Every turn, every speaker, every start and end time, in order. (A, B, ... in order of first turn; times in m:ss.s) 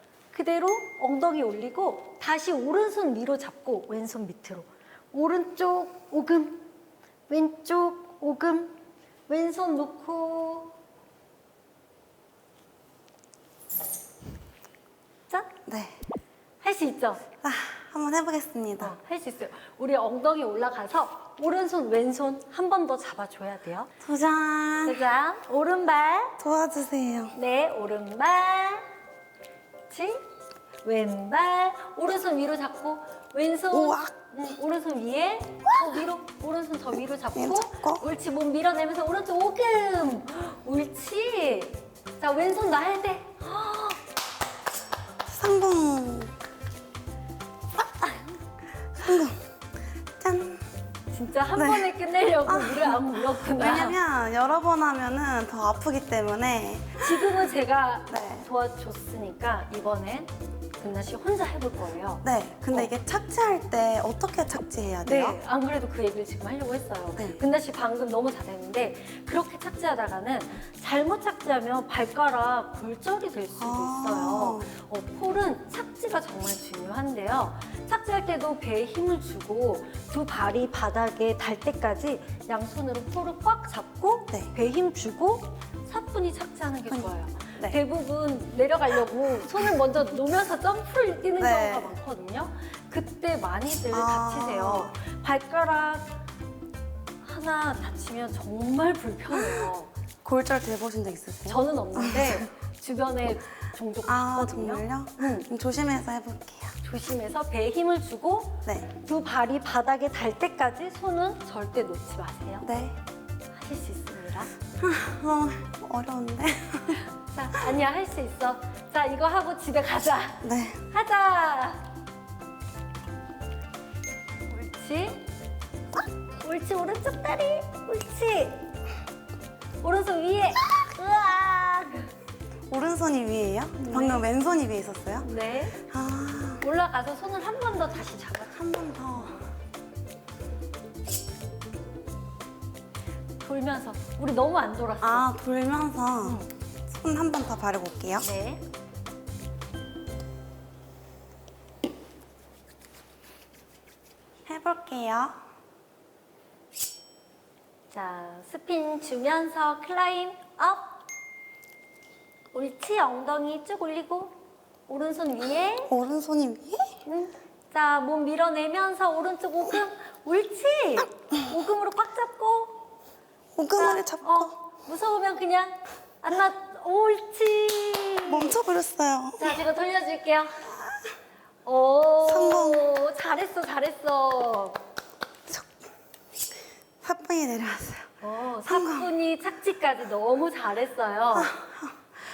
0:00.3-0:06.7 A
0:07.3-0:08.8 A
0:09.3-0:10.7 A
0:15.7-0:16.0 B
0:16.6-0:17.2 A
0:17.4-0:18.9 B
0:18.8-0:23.9 A
0:24.0-0:25.0 B
0:24.8-0:26.4 A
0:26.4-0:27.4 B
0:27.3-0:28.8 A
0:29.9-0:30.2 A
0:30.8-0:44.0 A
0:33.7-0:34.1 B
0:37.3-0:38.0 B
0:45.3-0:46.3 B
0:48.9-0:49.4 B
0:50.2-0:50.6 B
0:51.1-0:54.0 A
0:51.5-0:51.9 B
0:52.4-0:57.4 B
0:57.0-1:02.9 A
0:58.1-0:58.5 B
1:02.2-1:05.4 B
1:05.0-1:36.2 A
1:13.6-1:14.7 B
1:26.9-1:27.8 B
1:31.4-1:32.0 B
1:33.9-1:34.9 B
1:37.2-1:39.9 A
1:39.3-1:39.7 B
1:40.2-1:42.5 B
1:41.5-1:45.5 A
1:44.0-1:46.7 B
1:46.8-1:52.7 A
1:48.6-1:48.9 B
1:52.6-1:53.0 B
1:53.5-1:54.5 A
1:54.8-1:57.0 B
1:57.3-2:01.8 A
2:00.4-2:00.8 B
2:04.5-2:05.2 A
2:06.4-2:08.6 A
2:09.8-2:12.1 A
2:12.7-2:15.3 B
2:13.8-2:14.2 A
2:15.2-2:15.8 A
2:15.8-2:16.6 B
2:16.6-2:18.5 A
2:18.5-2:19.4 B
2:23.4-2:25.3 A
2:25.0-2:28.3 B
2:26.2-2:26.5 A
2:28.2-2:28.6 A
2:34.4-2:35.4 B
2:37.9-2:41.0 A
2:42.5-2:44.3 A
2:44.9-2:45.9 A
2:45.9-2:47.0 B
2:47.0-2:52.8 A
2:53.6-2:54.6 B
2:53.7-2:58.5 A
2:58.2-2:59.6 B
2:59.4-3:00.7 A
3:01.6-3:04.8 A
3:02.2-3:02.9 B
3:07.0-3:08.1 B
3:08.2-3:11.5 A
3:08.6-3:09.1 B
3:11.3-3:11.9 B